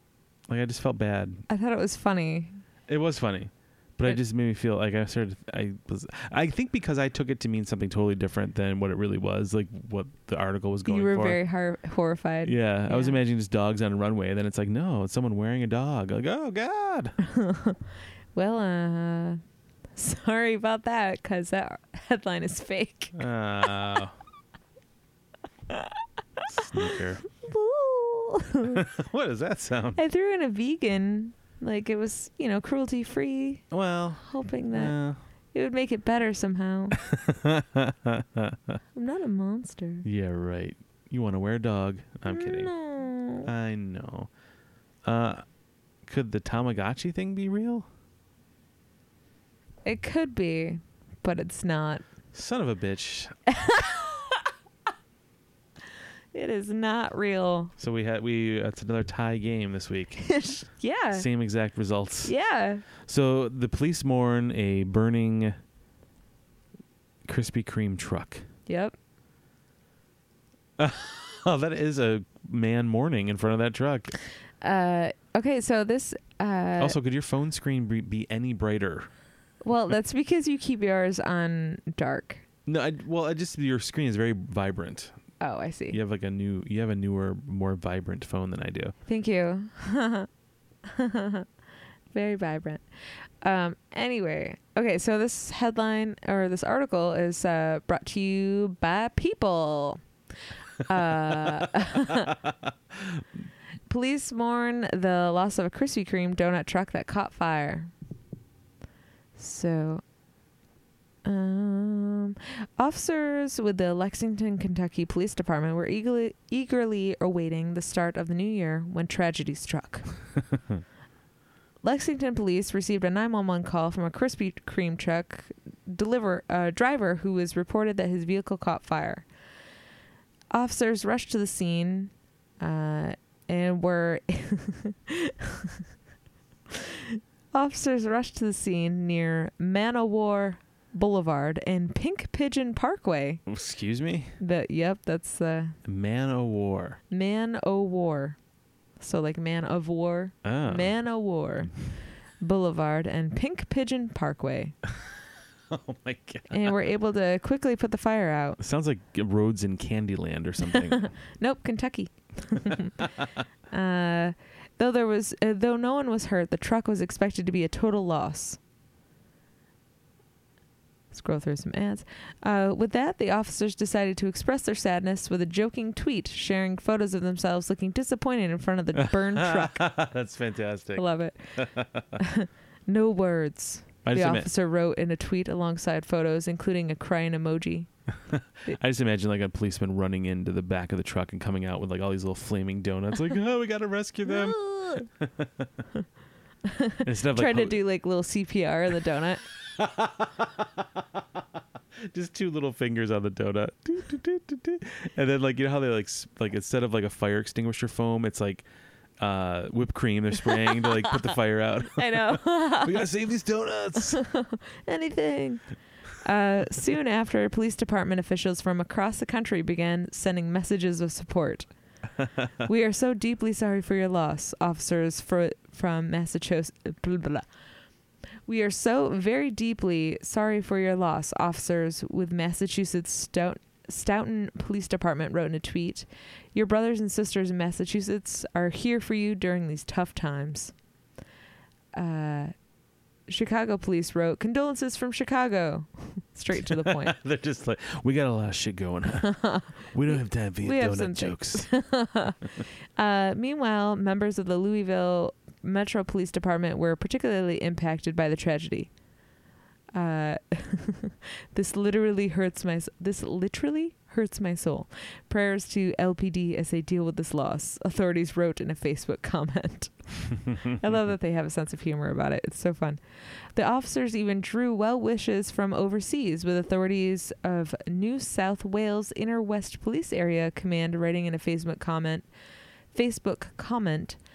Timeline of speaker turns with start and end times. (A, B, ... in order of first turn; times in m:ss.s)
0:00.5-0:01.5 A
0:01.5-0:02.6 B
0:02.9-0:11.4 A
0:10.9-0:13.2 B
0:12.4-0:17.2 A
0:17.2-0:17.8 B
0:18.4-0:19.4 B
0:20.0-0:23.2 B
0:23.2-0:24.2 A
0:25.7-0:28.9 B
0:26.5-0:27.2 A
0:28.7-0:30.0 A
0:30.0-0:33.6 B
0:33.7-0:35.2 A
0:34.2-0:34.9 B
0:35.5-0:37.0 B
0:37.0-0:38.8 A
0:38.9-0:40.1 B
0:40.0-0:42.7 A
0:42.3-0:43.5 B
0:43.4-0:44.3 A
0:45.0-0:45.4 A
0:46.0-0:47.9 A
0:49.8-0:52.0 B
0:52.3-0:53.3 A
0:53.5-0:54.4 B
0:56.3-0:57.7 B
0:57.8-1:00.4 A
1:00.2-1:01.3 B
1:01.1-1:02.3 A
1:02.2-1:02.8 B
1:03.0-1:05.5 A
1:07.3-1:08.5 A
1:08.7-1:09.0 B
1:10.8-1:14.1 A
1:14.6-1:17.0 B
1:16.8-1:19.1 A
1:19.6-1:22.4 B
1:22.7-1:25.2 A
1:25.4-1:26.0 B
1:25.9-1:29.0 A
1:29.1-1:30.3 B
1:30.8-1:31.5 B
1:32.1-1:32.8 B
1:33.4-1:40.0 B
1:40.8-1:42.4 B
1:41.2-1:43.2 A
1:43.9-1:47.9 B
1:49.4-1:50.0 B
1:51.2-2:00.0 B
2:01.8-2:09.3 B
2:10.5-2:15.8 B
2:16.7-2:23.4 B
2:23.5-2:24.4 A
2:24.4-2:25.8 B
2:25.8-2:27.0 A
2:27.1-2:28.4 B
2:29.0-2:31.8 B
2:30.4-2:31.0 A
2:32.4-2:34.8 B
2:34.9-2:35.2 A
2:35.7-2:36.9 A
2:36.5-2:38.6 B
2:38.6-2:41.1 A
2:40.7-2:43.1 B
2:43.0-2:43.3 A
2:43.7-2:48.6 B
2:51.1-2:59.9 B
2:59.0-3:01.0 A
3:01.0-3:07.9 B
3:01.6-3:02.2 A
3:04.0-3:04.5 A
3:08.3-3:15.7 A
3:14.3-3:15.1 B
3:16.6-3:19.4 B
3:17.0-3:17.8 A
3:19.6-3:28.7 A
3:29.2-3:34.2 A
3:30.5-3:31.3 B
3:31.8-3:33.1 B
3:34.0-3:35.6 B
3:36.2-3:41.7 B
3:42.6-3:47.5 B
3:48.5-4:00.7 B
4:01.9-4:02.5 B
4:03.3-4:07.2 B
4:06.5-4:11.7 A
4:09.2-4:18.9 B
4:20.0-4:33.0 B
4:33.6-4:42.3 B
4:42.9-4:44.2 B